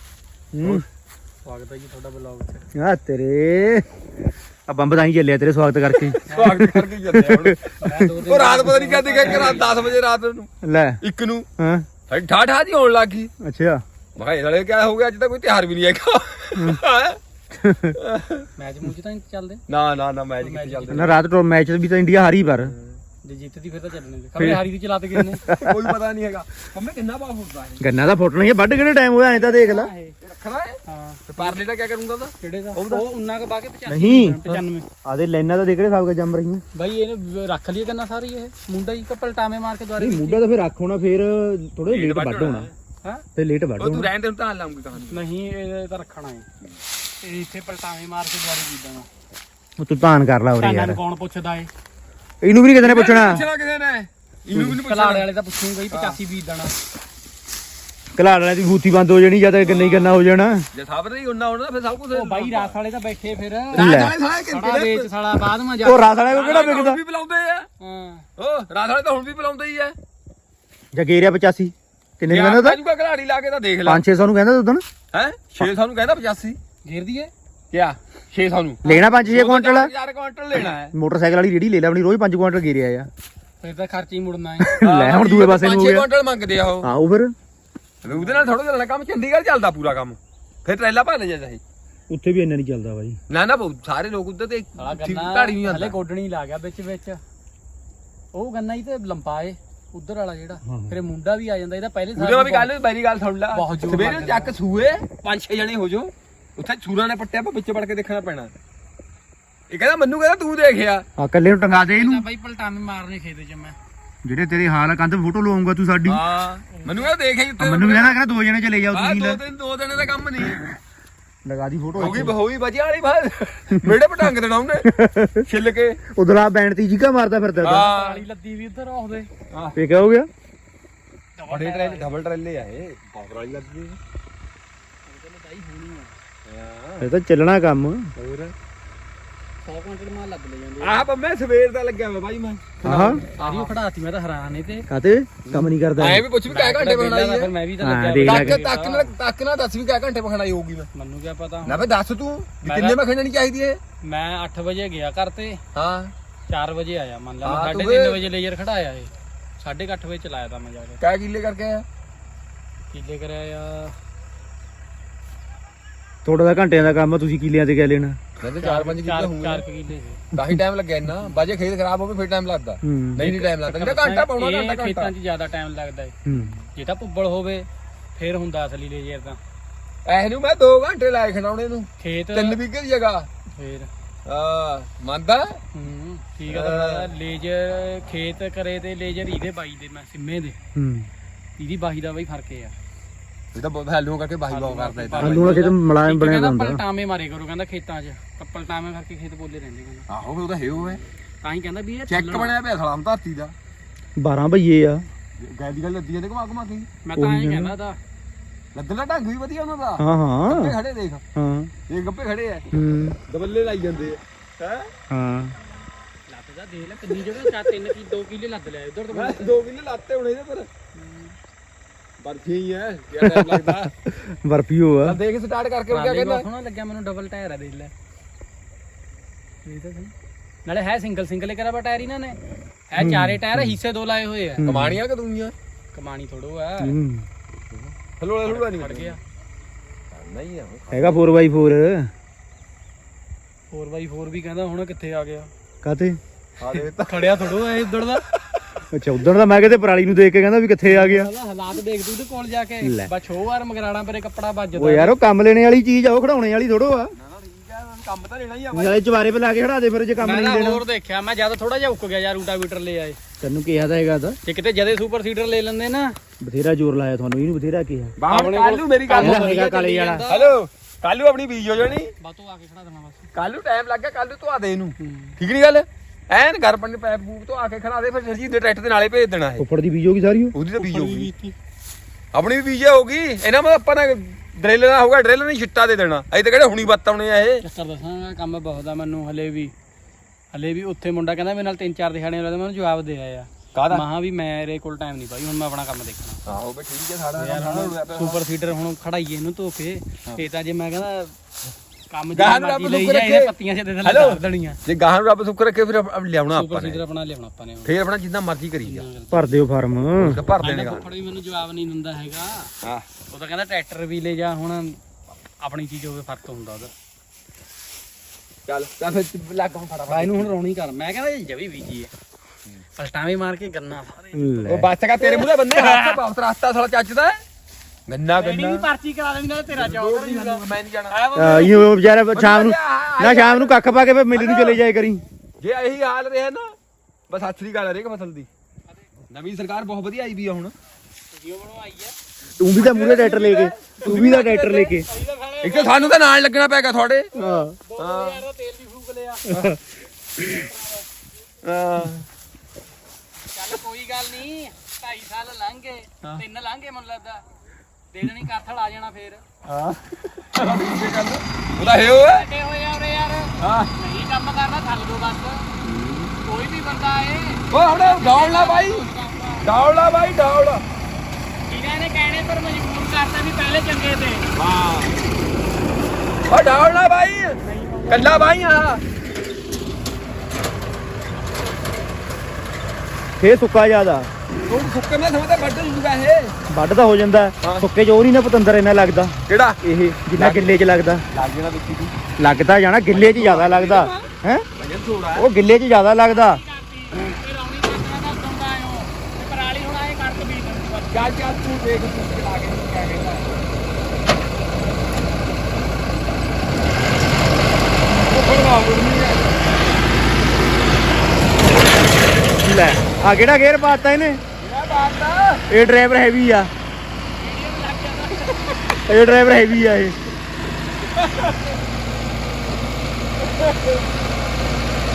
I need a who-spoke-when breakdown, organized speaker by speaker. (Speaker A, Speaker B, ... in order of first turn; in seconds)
Speaker A: 0.6-0.8, 5.9-7.7, 8.2-10.5, 11.0-11.5, 12.1-13.3, 14.2-17.2, 18.0-18.5, 19.7-21.1, 22.6-23.0, 24.4-24.6, 25.6-27.8, 30.2-33.0, 41.9-42.7, 43.8-45.3, 52.8-55.3, 55.9-56.2, 59.6-60.2, 60.7-62.8, 63.7-65.1, 66.3-67.7, 68.4-70.0, 72.3-74.0, 75.1-76.6, 77.7-80.9, 84.8-86.9, 88.0-91.6, 93.3-96.0, 102.2-108.5, 109.7-111.0, 116.1-118.2, 118.9-120.7, 122.0-124.9, 125.5-126.0, 127.6-128.2, 129.5-129.8, 131.5-134.0, 136.5-137.1, 138.2-138.5, 140.8-143.8, 145.5-147.5, 148.2-150.9, 151.7-153.8, 155.8-156.1, 157.4-158.2, 161.0-161.8, 168.4-169.6, 170.3-175.1, 180.1-183.3, 184.3-185.6, 186.5-187.1, 193.5-195.7, 200.1-201.0, 202.1-203.6, 205.4-206.9, 208.8-211.2, 211.9-212.7, 213.3-214.9, 217.1-217.8, 219.1-220.7, 222.2-223.9, 225.1-226.5, 234.6-235.5, 237.7-239.2, 240.1-241.2, 246.6-247.9, 248.5-248.8, 257.2-259.0, 268.2-269.6, 270.3-272.1, 273.3-279.6, 280.5-281.3, 282.3-287.6, 293.7-294.1, 296.5-298.4, 302.4-303.5, 304.0-307.0, 307.9-309.1, 310.2-311.1, 318.7-320.5, 324.6-327.4, 328.1-328.9, 329.7-334.8, 335.6-336.7, 337.3-338.5, 339.3-340.7, 342.7-344.6, 345.6-347.3, 348.0-348.4, 351.6-352.3, 359.6-362.5, 363.6-363.9, 365.9-366.3, 367.7-369.1, 369.6-370.8, 374.6-375.2, 376.5-379.0, 384.7-386.6, 387.6-387.9, 389.5-389.8, 390.3-392.1, 393.1-395.5, 401.1-403.6, 408.1-409.7, 414.6-415.7, 421.1-421.6, 423.6-423.9
Speaker B: 1.4-2.7, 7.8-9.8, 18.6-19.6, 20.4-21.2, 23.2-25.4, 29.3-30.1, 30.9-31.6, 32.4-34.9, 36.7-40.5, 45.0-46.5, 47.2-49.1, 50.6-51.7, 54.6-56.8, 62.1-63.9, 64.5-66.1, 67.8-68.3, 76.8-77.3, 83.6-84.7, 88.1-88.4, 94.8-97.2, 98.3-102.7, 103.5-104.5, 111.7-113.8, 127.6-129.3, 131.4-132.1, 135.1-136.2, 139.6-141.1, 143.2-144.9, 146.5-149.2, 150.9-151.9, 152.6-153.0, 154.0-155.6, 156.5-161.0, 162.9-164.0, 168.6-170.3, 173.2-176.2, 176.8-179.4, 182.0-182.6, 183.6-183.9, 185.7-190.6, 191.6-192.8, 194.5-200.1, 201.4-202.5, 207.1-208.0, 216.3-219.6, 220.9-221.3, 225.9-227.9, 229.7-230.1, 230.7-232.4, 232.9-234.7, 235.9-237.0, 238.4-239.2, 243.7-245.5, 246.7-248.2, 250.9-255.2, 260.2-263.2, 264.4-266.2, 268.3-270.5, 272.2-273.3, 275.0-275.4, 280.8-281.6, 287.6-289.7, 290.5-296.4, 297.4-301.3, 302.1-304.8, 306.5-307.9, 308.8-309.5, 310.6-312.7, 313.3-315.0, 315.6-316.9, 320.1-322.1, 322.9-324.3, 325.2-326.2, 328.4-331.7, 341.3-342.1, 344.0-346.2, 347.4-349.6, 350.4-351.0, 353.5-357.4, 358.1-359.4, 361.8-365.7, 366.4-369.7, 371.7-374.5, 377.6-378.5, 396.2-401.3, 417.4-419.1
Speaker C: 2.8-3.9, 4.7-8.1, 10.6-11.0, 11.6-11.9, 13.4-13.8, 17.6-18.0, 20.9-22.7, 25.1-25.9, 27.8-29.9, 33.9-36.6, 40.0-42.7, 43.4-44.1, 49.8-51.0, 52.4-53.5, 58.2-60.7, 63.8-64.2, 65.8-67.0, 70.9-72.8, 73.8-74.8, 78.8-79.9, 80.6-83.1, 84.6-86.1, 86.8-87.3, 92.1-93.2, 100.7-101.0, 111.2-112.3, 114.2-116.2, 117.6-119.4, 121.5-122.3, 124.8-125.5, 126.1-127.9, 129.8-130.3, 137.0-138.1, 142.8-143.2, 144.9-146.2, 147.8-148.6, 166.2-168.2, 172.8-173.3, 176.3-176.6, 190.8-191.1, 195.2-196.8, 204.2-205.0, 207.2-207.8, 210.0-210.8, 211.4-211.7, 212.7-213.2, 215.1-215.5, 223.2-225.2, 233.0-233.8, 234.6-235.0, 236.8-237.3, 240.9-242.1, 245.8-246.2, 248.9-251.3, 252.8-253.1, 254.8-257.1, 258.7-260.8, 263.4-264.4, 266.4-268.2, 269.1-270.3, 279.6-280.6, 309.3-310.4, 324.3-324.9, 331.4-335.2, 342.6-345.1, 347.4-347.8, 349.5-349.8, 383.4-384.3, 386.7-391.2, 392.4-394.7, 395.4-396.6, 412.6-414.4, 415.7-416.7, 419.1-420.2